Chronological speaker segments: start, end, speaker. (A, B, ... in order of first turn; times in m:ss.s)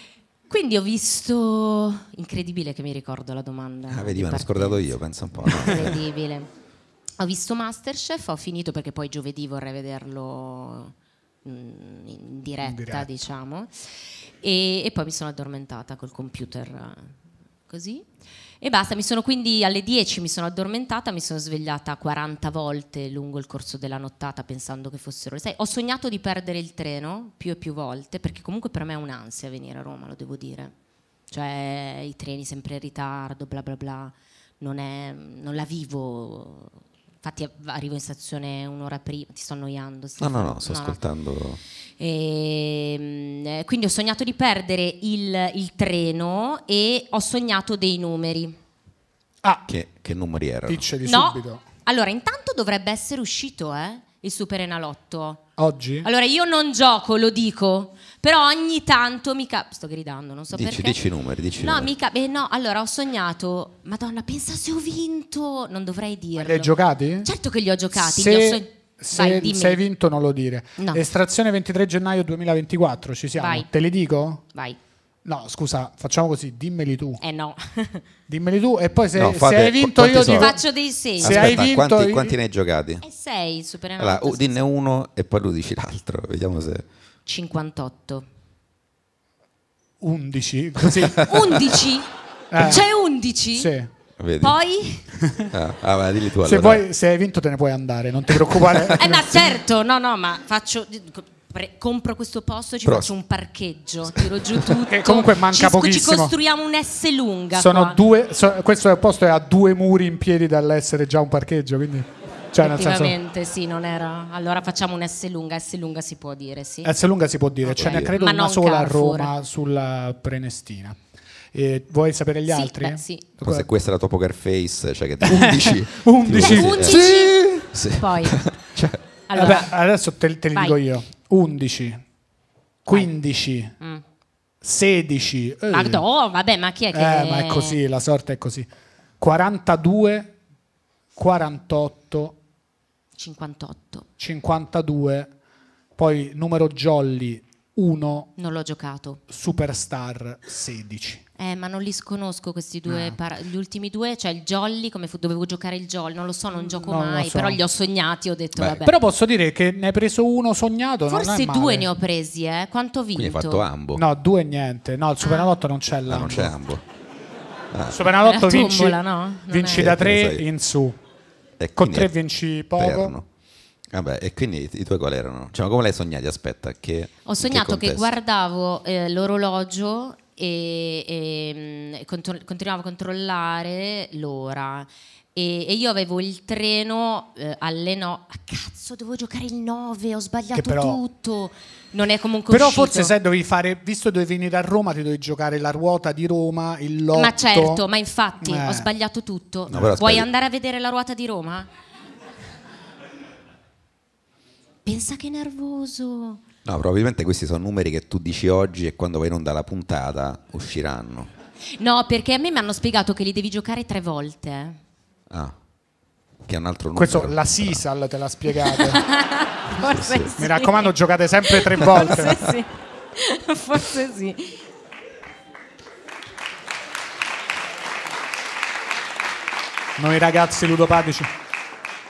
0:00.5-0:04.8 A
0:03.9-0:06.0 B
0:05.4-0:06.5 A
0:07.2-0:17.1 A
0:12.6-0:13.1 C
0:17.7-0:18.0 A
0:18.6-0:30.7 A
0:31.3-0:41.0 A
0:40.2-0:41.6 B
0:42.0-0:48.6 A
0:49.7-0:50.9 B
0:50.7-0:51.6 C
0:51.0-0:55.4 A
0:55.6-0:56.1 C
0:56.0-1:01.0 A
1:00.5-1:01.9 B
1:01.6-1:09.8 A
1:06.4-1:07.3 C
1:07.9-1:14.4 C
1:10.8-1:11.0 A
1:13.4-1:13.7 A
1:15.2-1:17.2 C
1:17.2-1:18.1 A
1:18.3-1:20.6 C
1:19.1-1:20.6 B
1:20.3-1:21.6 A
1:21.2-1:23.0 B
1:21.2-1:22.4 C
1:23.0-1:24.6 A
1:24.0-1:26.8 B
1:27.2-1:28.3 A
1:30.0-1:31.3 C
1:30.9-1:31.6 B
1:31.2-1:33.7 A
1:32.5-1:32.9 C
1:33.5-1:33.9 C
1:34.2-1:34.6 B
1:34.4-1:35.1 A
1:35.2-1:35.5 C
1:35.5-1:36.8 B
1:36.4-1:39.4 C
1:39.0-1:48.0 A
1:42.8-1:43.1 B
1:44.9-1:46.3 C
1:47.5-1:53.2 C
1:52.6-1:56.9 A
1:56.8-2:01.0 C
1:57.6-1:59.3 A
1:57.8-1:58.1 B
2:01.5-2:03.7 C
2:02.5-2:03.2 A
2:03.4-2:07.2 B
2:05.2-2:07.7 C
2:06.3-2:07.4 A
2:07.7-2:09.0 B
2:07.9-2:08.5 A
2:09.3-2:09.7 A
2:09.3-2:12.0 C
2:10.5-2:10.8 A
2:12.8-2:13.7 C
2:14.6-2:16.0 C
2:15.7-2:17.8 A
2:16.9-2:18.7 C
2:19.2-2:20.4 C
2:21.2-2:22.4 C
2:23.2-2:24.1 A
2:24.2-2:25.3 C
2:26.0-2:28.3 C
2:28.4-2:29.2 A
2:29.3-2:31.2 C
2:31.4-2:39.0 A
2:32.9-2:33.2 C
2:36.6-2:37.6 C
2:38.8-2:41.9 C
2:41.1-2:43.6 A
2:43.2-2:44.0 B
2:43.9-2:46.6 C
2:45.2-2:45.6 A
2:46.1-2:46.8 B
2:47.7-2:48.0 B
2:47.9-2:51.0 C
2:48.2-2:49.9 A
2:49.7-2:50.4 B
2:51.6-2:52.1 B
2:51.8-2:53.1 C
2:52.8-2:53.2 B
2:53.9-2:58.1 B
2:57.2-3:13.1 A
3:10.5-3:11.0 C
3:12.5-3:17.8 C
3:17.1-3:21.7 A
3:18.4-3:18.9 C
3:19.7-3:20.3 B
3:19.7-3:20.0 C
3:24.8-3:26.4 A
3:26.6-3:31.3 B
3:31.8-3:34.8 A
3:35.3-3:35.5 B
3:36.4-3:37.8 B
3:36.9-3:39.0 C
3:38.6-3:44.6 A
3:39.8-3:40.3 B
3:40.4-3:42.5 C
3:50.0-3:51.3 C